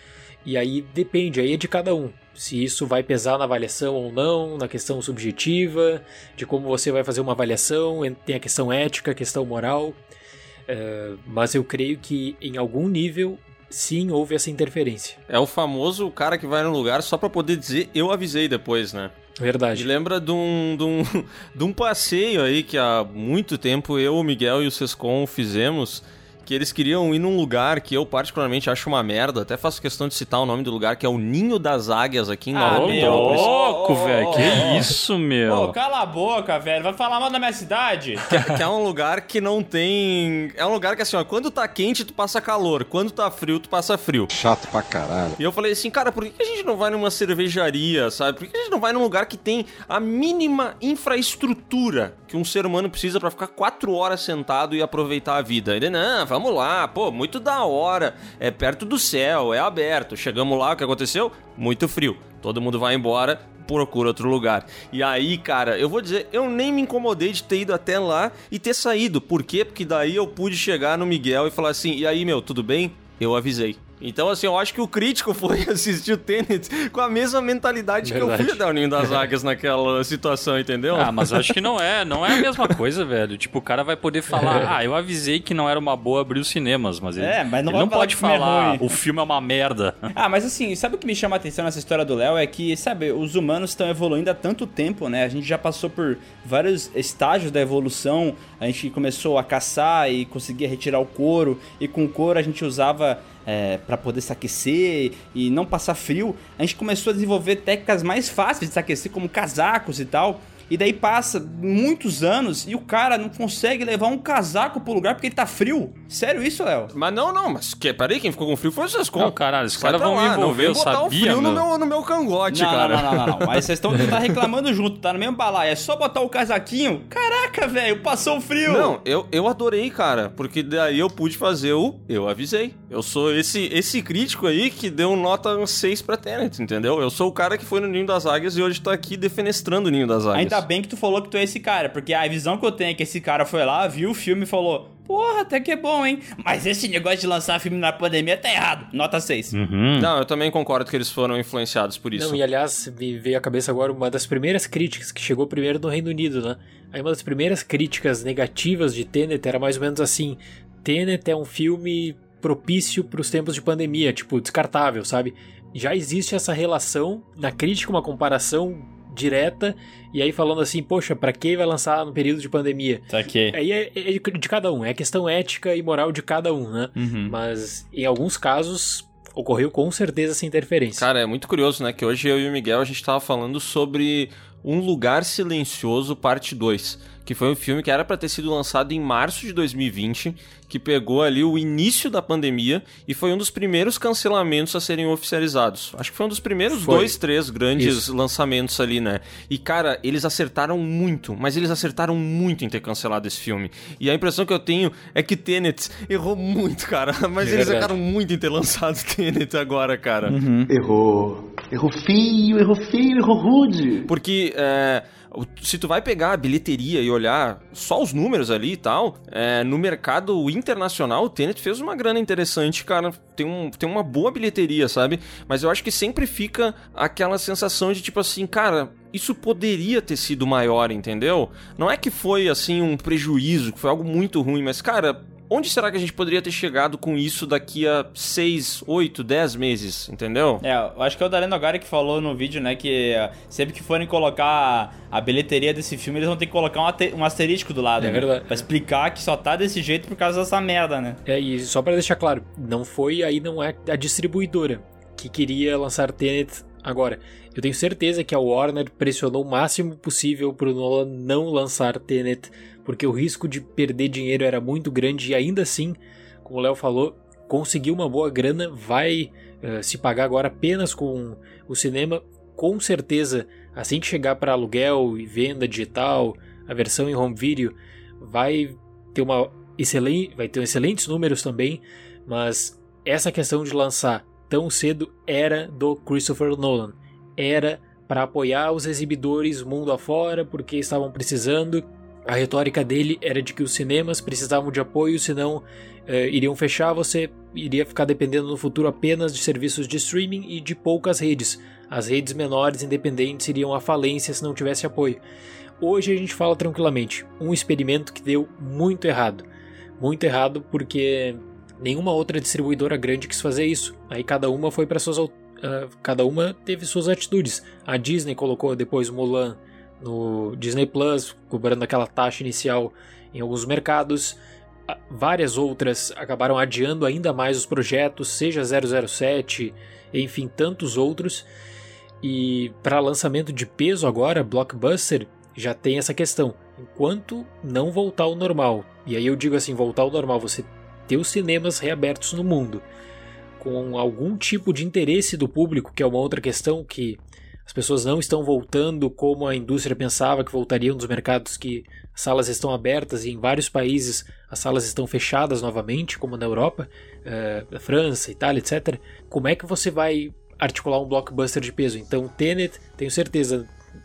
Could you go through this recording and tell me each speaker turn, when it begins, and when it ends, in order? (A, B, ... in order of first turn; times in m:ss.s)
0:00.4-0:10.0 A
0:10.7-0:15.2 A
0:15.3-0:19.1 B
0:19.4-0:19.9 A
0:19.7-0:33.5 B
0:32.5-0:34.9 C
0:32.6-0:35.8 D
0:35.5-0:38.4 C
0:38.3-0:44.3 B
0:44.3-0:45.4 E
0:45.4-1:21.5 B
1:18.0-1:18.6 A
1:20.9-1:30.1 D
1:24.3-1:24.7 A
1:27.2-1:28.8 C
1:30.1-1:56.9 C
1:56.9-2:03.3 B
1:59.2-2:01.7 D
2:02.5-2:09.0 C
2:08.6-2:20.6 B
2:20.3-2:29.5 C
2:29.5-2:30.1 D
2:30.0-2:32.4 B
2:32.1-3:01.0 A
2:53.1-2:53.6 C
2:57.0-2:57.4 C
3:01.0-3:30.3 B
3:16.7-3:17.1 A
3:17.8-3:18.0 A
3:27.4-3:27.9 A
3:30.2-3:30.7 C
3:30.7-3:34.0 E
3:34.1-4:00.6 B
4:00.6-4:11.2 C
4:08.0-4:08.6 A
4:11.2-5:05.2 A
5:05.8-5:09.4 A
5:10.0-5:31.4 A
5:32.2-5:42.8 A
5:43.6-6:03.7 A